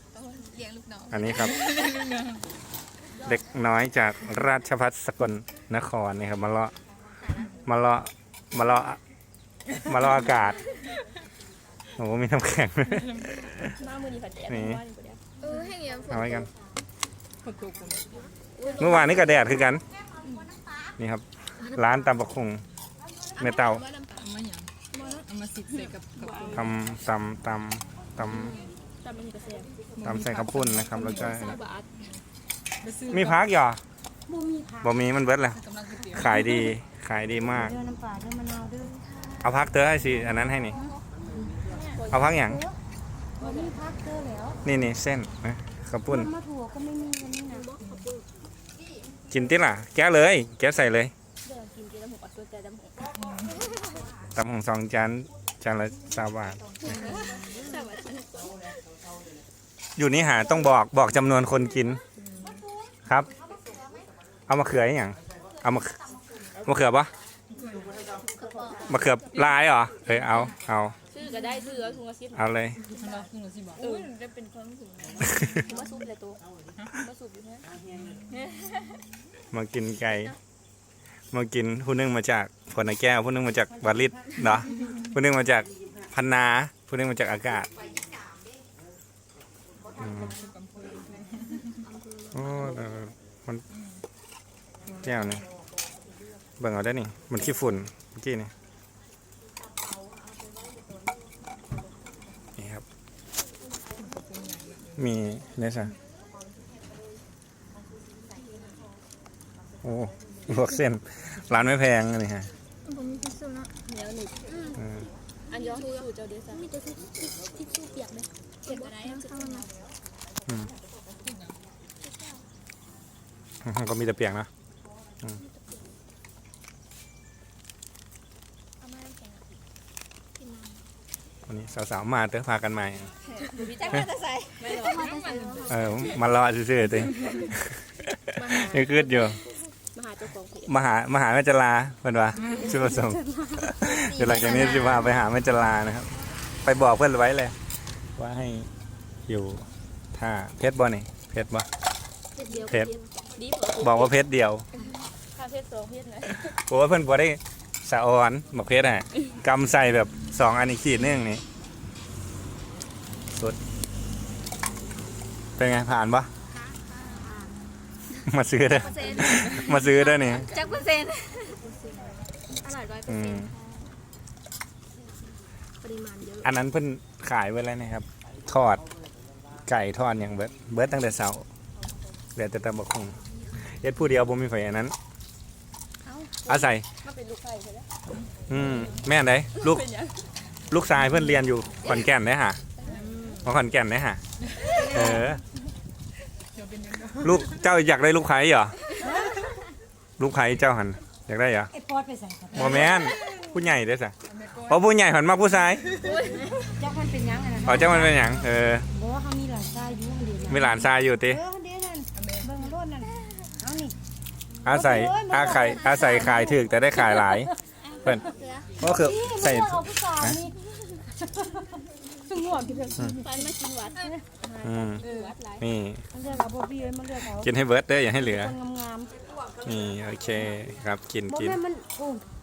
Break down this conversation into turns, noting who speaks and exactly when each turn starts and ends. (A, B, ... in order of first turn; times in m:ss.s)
0:00.1-0:02.2 A
0:01.1-0:01.6 B
0:01.5-0:02.2 C
0:03.2-0:06.7 B
0:07.6-0:09.0 B
0:09.8-0:10.6 B
0:12.0-0:13.7 B
0:13.8-0:15.2 C
0:14.5-0:14.8 B
0:15.4-0:16.5 A
0:16.1-0:16.5 B
0:17.4-0:19.1 C
0:18.6-0:19.5 A
0:18.8-0:19.8 B
0:21.0-0:22.6 B
0:21.6-0:22.1 A
0:23.4-0:23.9 B
0:23.4-0:24.3 A
0:24.1-0:26.7 C
0:24.9-0:25.2 A
0:25.9-0:26.6 A
0:26.5-0:28.6 B
0:28.2-0:32.0 C
0:28.4-0:28.7 A
0:29.3-0:29.7 A
0:30.0-0:31.6 B
0:32.8-0:33.4 C
0:33.1-0:33.8 B
0:34.3-0:34.9 D
0:34.8-0:37.8 B
0:35.6-0:36.7 C
0:37.5-0:39.0 D
0:39.0-0:39.4 A
0:39.4-0:40.8 B
0:41.7-0:42.2 A
0:41.9-0:42.3 C
0:42.1-0:42.6 B
0:42.3-0:42.7 D
0:43.4-0:43.7 C
0:43.4-0:44.6 D
0:44.6-0:46.3 B
0:46.1-0:47.7 D
0:47.5-0:48.2 A
0:47.8-0:48.1 C
0:49.3-0:51.1 B
0:51.4-0:53.6 C
0:53.5-0:53.8 A
0:54.3-0:56.8 B
0:56.8-0:58.2 A
0:56.8-0:58.5 C
1:00.0-1:02.0 B
1:02.2-1:02.6 C
1:03.0-1:03.3 B
1:04.5-1:06.0 B
1:06.6-1:07.1 B
1:07.6-1:07.9 C
1:08.4-1:09.0 A
1:08.6-1:08.8 C
1:08.8-1:11.0 B
1:11.1-1:18.4 C
1:11.3-1:12.1 A
1:12.3-1:12.8 B
1:13.8-1:14.1 A
1:15.6-1:16.1 A
1:18.6-1:18.8 A
1:19.5-1:20.3 B
1:21.3-1:27.7 B
1:30.0-1:30.4 B
1:30.0-1:31.6 C
1:31.6-1:32.8 A
1:32.3-1:33.6 B
1:35.0-1:35.4 B
1:36.6-1:38.5 B
1:42.6-1:42.8 B
1:44.0-1:45.0 C
1:45.0-1:45.9 B
1:49.8-1:52.5 B
1:52.8-1:53.7 A
1:53.8-1:54.3 C
1:54.4-1:54.8 A
1:54.8-1:55.0 B
1:55.5-1:56.6 C
1:55.5-1:59.7 A
1:58.7-1:59.2 C
2:01.2-2:01.6 C
2:02.0-2:02.4 A
2:03.6-2:04.5 B
2:05.4-2:05.8 A
2:08.8-2:09.3 A
2:10.4-2:10.8 A
2:11.5-2:13.1 B
2:13.2-2:16.0 C
2:13.4-2:16.2 A
2:15.1-2:15.4 D
2:15.7-2:19.4 B
2:18.4-2:19.4 C
2:18.7-2:19.5 A
2:19.9-2:20.7 C
2:20.6-2:26.1 B
2:22.5-2:25.2 A
2:26.6-2:27.6 B
2:28.2-2:28.7 B
2:29.3-2:31.7 B
2:32.3-2:33.5 A
2:32.4-2:32.8 C
2:33.4-2:34.1 C
2:33.8-2:34.6 B
2:35.4-2:36.5 C
2:36.5-2:41.4 B
2:45.6-2:46.3 B
2:46.5-2:47.5 A
2:48.2-2:50.5 B
2:48.6-2:51.6 A
2:52.6-2:53.9 A
2:53.1-2:53.5 B
2:55.8-2:56.5 A
2:56.4-2:58.8 B
2:59.6-3:01.4 B
3:02.4-3:04.9 B
3:06.5-3:06.8 B
3:06.5-3:07.9 C
3:08.5-3:09.8 B
3:09.6-3:10.2 C
3:10.7-3:12.6 B
3:12.8-3:13.4 A
3:12.8-3:13.5 C
3:13.4-3:14.2 B
3:14.5-3:15.2 C
3:14.6-3:15.4 A
3:14.9-3:15.4 B
3:16.5-3:17.4 C
3:17.2-3:18.8 B
3:19.0-3:19.4 D
3:20.2-3:21.7 B
3:21.7-3:22.9 D
3:22.5-3:24.1 B
3:23.0-3:23.2 A
3:24.3-3:24.8 C
3:24.7-3:26.1 B
3:26.0-3:26.5 C
3:26.1-3:26.7 A
3:26.7-3:28.2 D
3:27.6-3:28.9 B
3:28.9-3:33.9 D
3:30.5-3:31.4 B
3:32.1-3:32.5 C
3:34.6-3:37.5 B
3:34.7-3:36.6 D
3:35.5-3:36.5 A
3:37.8-3:38.8 A
3:38.8-3:40.4 B
3:38.8-3:40.6 D
3:41.2-3:41.6 D
3:42.2-3:43.2 D
3:43.0-3:44.1 A
3:43.2-3:43.5 C
3:44.4-3:45.6 C
3:44.6-3:45.0 B
3:45.0-3:45.4 A
3:45.0-3:45.3 D
3:45.6-3:46.0 B
3:46.1-3:47.5 D
3:47.4-3:48.6 B
3:48.2-3:49.1 D
3:49.6-3:51.6 B
3:51.3-3:52.2 D